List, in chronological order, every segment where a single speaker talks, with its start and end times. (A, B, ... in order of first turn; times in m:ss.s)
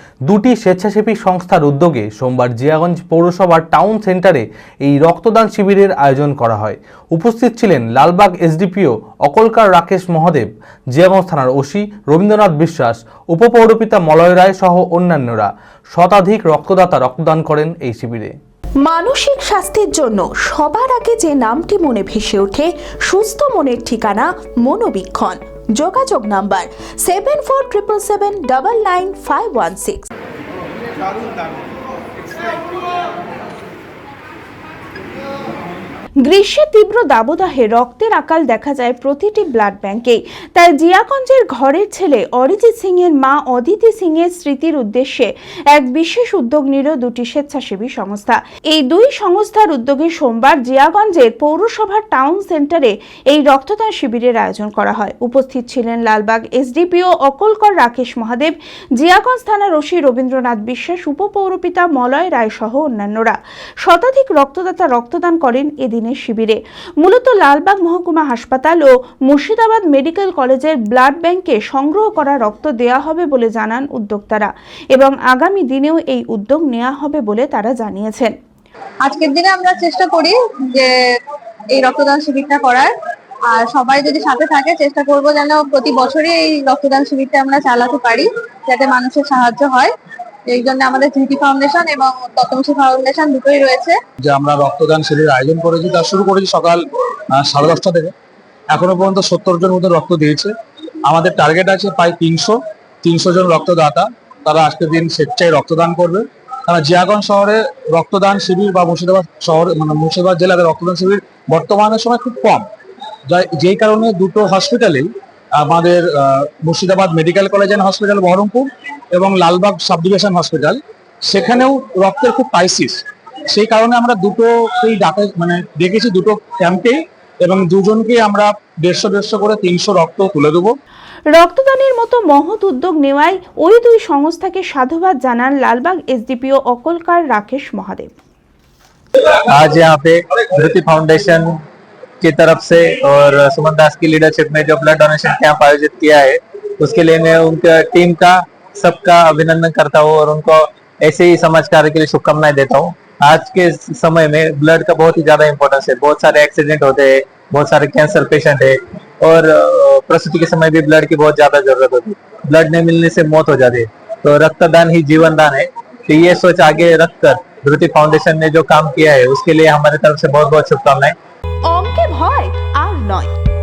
0:00.3-0:18.4 A
0:18.8-0:30.1 B
0:36.3-1:18.3 B
1:19.0-1:20.9 C
1:21.7-1:22.9 C
1:23.5-1:29.9 C
1:30.5-1:34.0 C
1:34.2-1:38.1 D
1:38.7-1:40.5 D
1:41.1-1:52.7 D
1:53.3-2:10.8 D
2:11.3-2:18.1 B
2:19.5-2:21.5 E
2:22.2-2:51.2 E
2:51.7-2:53.3 B